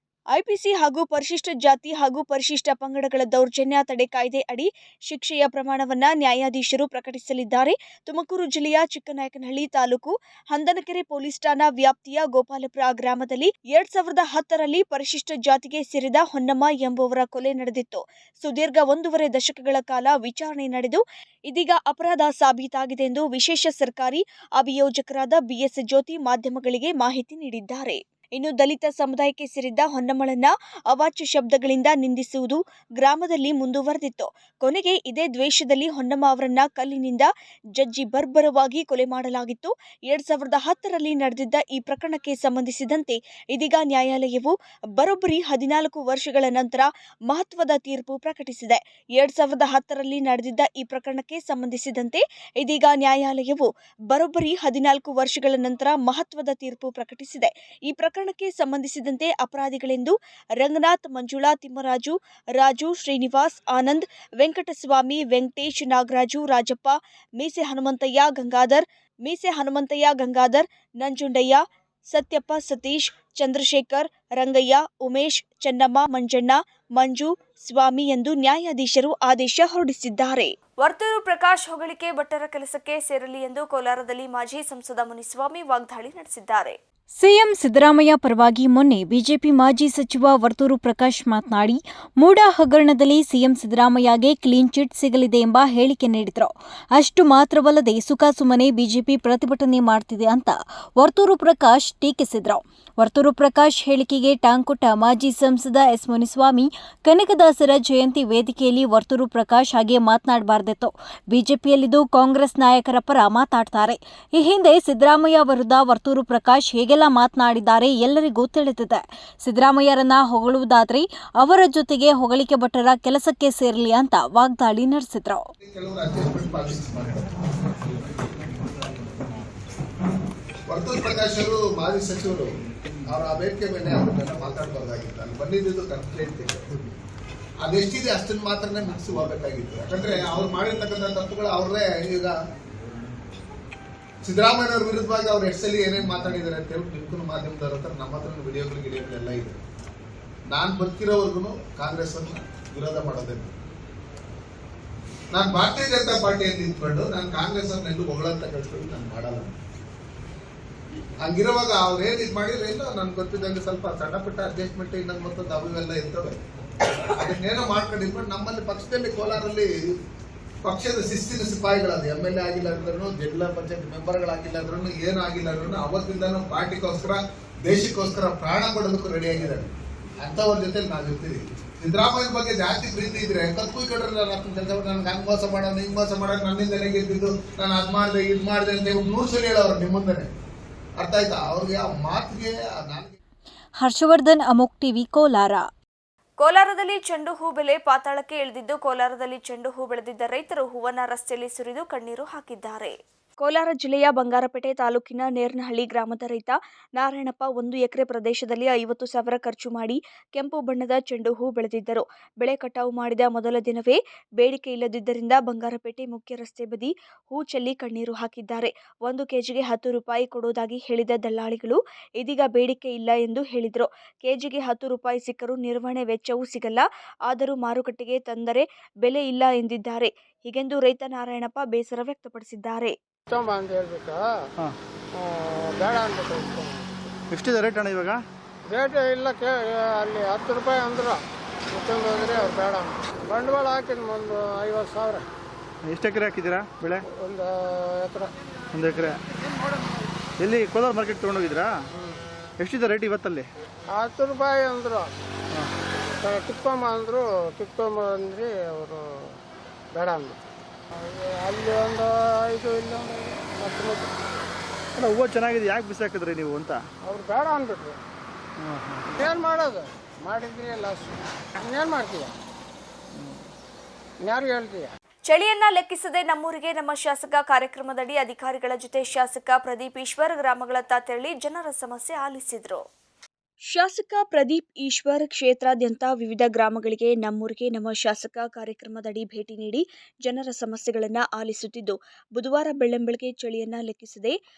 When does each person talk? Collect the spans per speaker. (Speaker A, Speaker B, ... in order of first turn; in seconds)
Speaker A: 0.3-86.8, 196.4-232.9, 275.3-282.8, 283.7-294.4
Speaker B: 87.2-125.5, 193.8-195.7
Speaker C: 125.6-127.3, 130.7-132.5, 133.1-136.7, 137.6-142.4, 144.2-149.6, 150.5-153.5, 155.3-159.6, 161.2-166.4, 167.1-169.9, 170.6-190.3, 191.0-193.1
Speaker D: 233.3-234.3, 235.1-237.1, 238.7-245.3, 247.1-248.3, 253.9-255.1, 256.2-259.4, 259.9-260.4, 260.9-264.1, 267.0-268.0, 269.2-272.3, 274.2-274.9
Speaker E: 237.3-238.2, 245.8-247.0, 248.7-249.2, 250.4-251.7, 252.6-253.4, 264.9-266.8, 268.6-269.3